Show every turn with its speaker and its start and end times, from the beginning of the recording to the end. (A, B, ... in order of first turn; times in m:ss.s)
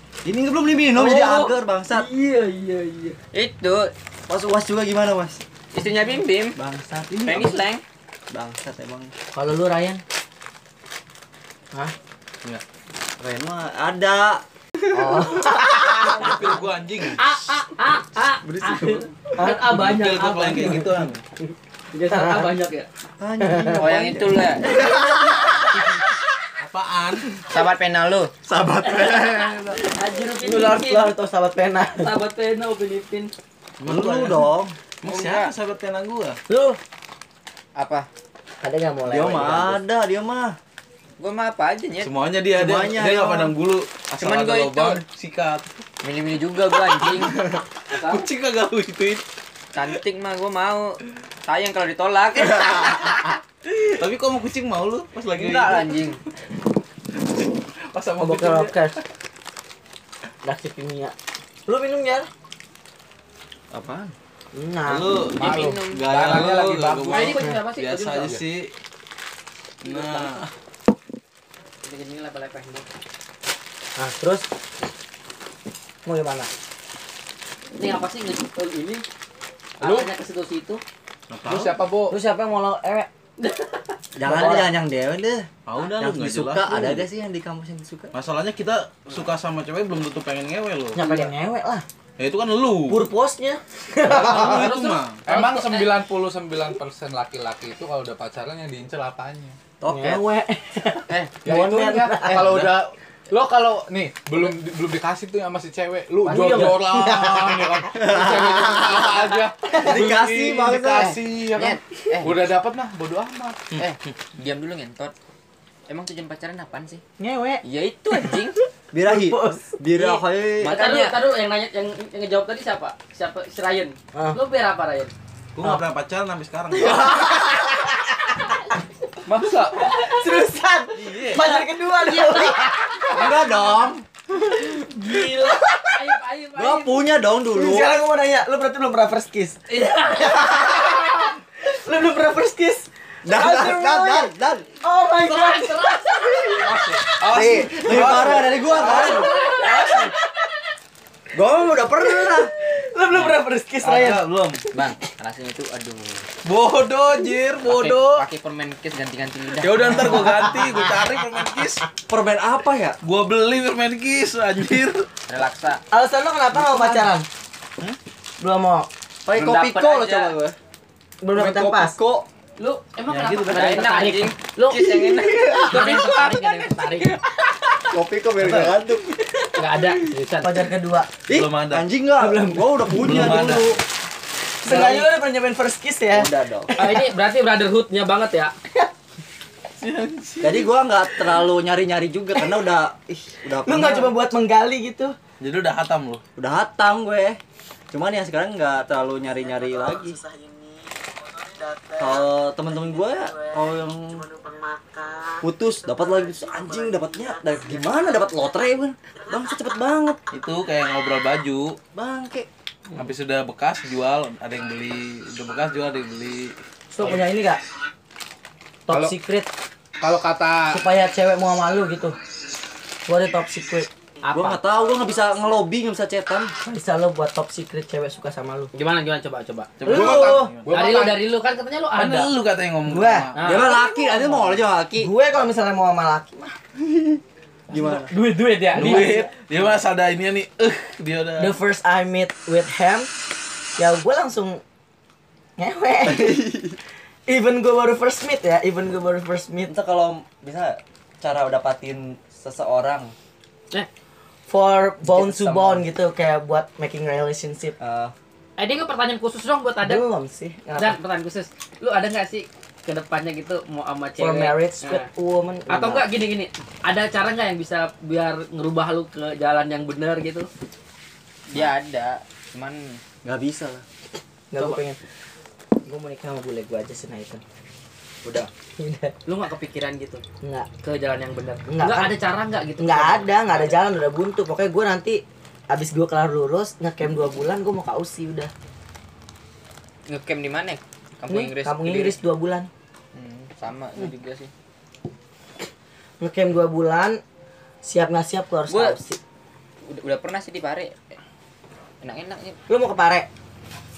0:00.2-0:02.1 A
0:01.0-0:03.2 B
0:03.3-0:03.9 C
0:04.3-0:05.4 A
0:05.7-0:06.6 C
0:06.6-0:07.6 A
0:07.2-0:07.8 C
0:08.3-0:09.1 A
0:09.3-0:10.0 D
0:13.2-0:14.4 A
0:14.9-0:16.2 D
0:14.9-0:15.4 A
0:16.1-0:17.2 E
0:16.2-0:16.5 B
0:17.2-0:21.0 B
0:18.4-0:19.1 E
0:19.4-0:19.7 D
0:19.6-0:21.2 E
0:21.9-0:22.9 B
0:22.1-0:22.5 D
0:23.2-0:24.8 A
0:23.4-0:23.9 D
0:23.8-0:25.1 C
0:24.8-0:25.7 E
0:26.6-0:27.4 E
0:27.4-0:28.3 C
0:28.5-0:29.8 A
0:28.8-0:31.2 B
0:29.1-0:29.6 E
0:30.4-0:32.2 D
0:32.0-0:33.3 B
0:33.8-0:36.4 E
0:33.8-0:34.8 A
0:35.0-0:35.5 C
0:36.5-0:36.8 D
0:37.8-0:38.1 C
0:38.6-0:39.8 D
0:39.1-0:40.6 A
0:41.2-0:42.1 C
0:42.0-0:45.7 E
0:42.5-0:43.6 A
0:44.2-0:45.0 C
0:46.0-0:47.4 C
0:46.8-0:49.2 E
0:47.9-0:48.2 B
0:49.7-0:53.2 C
0:52.5-0:56.1 E
0:55.3-0:56.2 C
0:57.2-0:59.0 E
0:58.2-0:59.0 D
1:00.4-1:01.2 D
1:01.7-1:02.3 D
1:03.7-1:04.1 A
1:04.5-1:05.2 D
1:04.9-1:08.7 E
1:05.4-1:07.4 F
1:05.4-1:06.5 C
1:07.1-1:08.3 B
1:09.8-1:10.5 E
1:09.8-1:10.4 B
1:11.8-1:12.9 B
1:14.0-1:14.5 D
1:16.0-1:16.5 D
1:17.8-1:19.0 B
1:19.8-1:20.8 B
1:19.8-1:20.1 F
1:21.3-1:21.8 E
1:21.5-1:22.2 F
1:22.1-1:23.1 D
1:23.4-1:24.0 B
1:24.2-1:28.1 A
1:24.2-1:24.8 D
1:25.6-1:27.1 E
1:28.1-1:31.0 E
1:31.0-1:31.8 D
1:31.0-1:31.3 B
1:32.2-1:33.0 E
1:32.9-1:34.7 D
1:34.0-1:35.3 E
1:34.3-1:35.8 C
1:35.2-1:39.6 F
1:39.8-1:40.3 A
1:39.9-1:42.6 D
1:41.4-1:53.7 F
1:42.3-1:42.8 E
1:46.3-1:47.9 D
1:48.0-1:51.2 A
1:49.7-1:50.1 D
1:51.0-1:52.4 C
1:53.8-1:55.1 C
1:55.9-1:57.0 C
1:57.2-1:57.6 D
1:57.6-1:58.6 C
1:58.2-1:59.7 D
1:58.9-2:00.8 A
1:59.9-2:01.2 C
2:00.6-2:05.1 B
2:04.1-2:04.4 D
2:05.6-2:07.4 E
2:06.9-2:07.9 D
2:09.3-2:09.9 F
2:09.8-2:10.1 B
2:09.9-2:13.1 D
2:10.9-2:11.5 E
2:11.4-2:13.1 B
2:13.1-2:14.0 A
2:14.7-2:17.1 B
2:14.7-2:16.0 D
2:16.6-2:17.9 A
2:17.5-2:27.0 D
2:19.7-2:20.6 B
2:23.2-2:24.7 A
2:25.2-2:26.9 B
2:26.6-2:29.7 E
2:27.2-2:29.5 A
2:27.6-2:30.2 D
2:29.1-2:29.7 B
2:31.3-2:32.5 A
2:31.8-2:34.9 D
2:33.8-2:34.7 E
2:34.7-2:36.3 C
2:36.4-2:38.2 E
2:37.6-2:40.5 C
2:39.6-2:41.9 E
2:42.0-2:43.0 A
2:43.0-2:45.1 E
2:45.3-2:45.8 C
2:45.9-2:47.3 D
2:48.4-2:48.9 D
2:49.3-2:50.6 A
2:49.3-2:50.4 C
2:51.2-2:52.0 D
2:51.3-2:52.3 A
2:52.6-2:57.2 B
2:53.1-2:53.6 E
2:53.5-2:56.7 C
2:55.4-2:56.0 D
2:57.9-2:59.2 A
2:58.4-2:58.8 E
2:59.5-3:00.6 B
3:00.4-3:01.1 D
3:01.3-3:03.7 A
3:01.3-3:01.9 E
3:02.2-3:03.8 D
3:03.0-3:03.7 E
3:04.6-3:07.0 D
3:04.7-3:05.0 A
3:06.1-3:06.8 A
3:06.7-3:08.6 B
3:09.8-3:10.7 E
3:10.4-3:14.1 A
3:12.3-3:12.8 D
3:13.5-3:15.2 D
3:15.4-3:16.2 E
3:16.4-3:17.4 A
3:17.9-3:20.2 A
3:20.1-3:20.5 D
3:22.0-3:24.3 A
3:24.2-3:24.5 D
3:25.4-3:30.2 A
3:30.3-3:31.8 E
3:31.9-3:32.5 A
3:33.0-3:37.2 E
3:36.9-3:37.6 D
3:38.9-3:39.5 D
3:38.9-3:39.2 F
3:40.0-3:40.8 F
3:40.7-3:42.2 D
3:43.1-3:43.9 D
3:44.2-3:44.6 B
3:44.3-3:46.5 A
3:46.6-3:48.7 D
3:48.7-3:49.8 B
3:49.8-3:50.8 E
3:49.8-3:50.6 D
3:49.9-3:51.2 F
3:50.7-3:52.3 B
3:51.9-3:53.8 E
3:52.9-3:53.3 D
3:53.4-3:53.8 B
3:53.4-3:55.1 A
3:54.9-3:56.6 D
3:56.8-3:58.1 A
3:57.9-3:59.3 B
3:58.7-4:01.6 E
3:58.8-3:59.3 D
4:01.4-4:03.1 D
4:03.8-4:04.6 D
4:05.6-4:09.8 D
4:06.1-4:06.8 A
4:09.7-4:13.1 A
4:14.5-4:17.8 D
4:15.0-4:15.8 A
4:17.8-4:18.1 A
4:18.6-4:20.0 B
4:19.8-4:21.0 D
4:20.8-4:25.1 B
4:24.2-4:26.1 D
4:25.7-4:30.5 B
4:31.5-4:33.0 C
4:33.2-4:33.8 A
4:34.5-4:35.0 D
4:35.8-4:37.4 D
4:38.8-4:39.2 D
4:39.3-4:40.1 B
4:40.4-4:40.7 D
4:40.8-4:43.8 B
4:41.7-4:42.1 D
4:42.8-4:48.5 D
4:50.1-4:52.2 C
4:51.3-4:52.7 D
4:53.1-4:54.5 C
4:56.2-4:57.2 D
4:57.8-4:59.2 D
4:58.7-4:59.0 C
4:59.9-5:01.2 C
5:02.0-5:02.6 C
5:02.7-5:03.3 D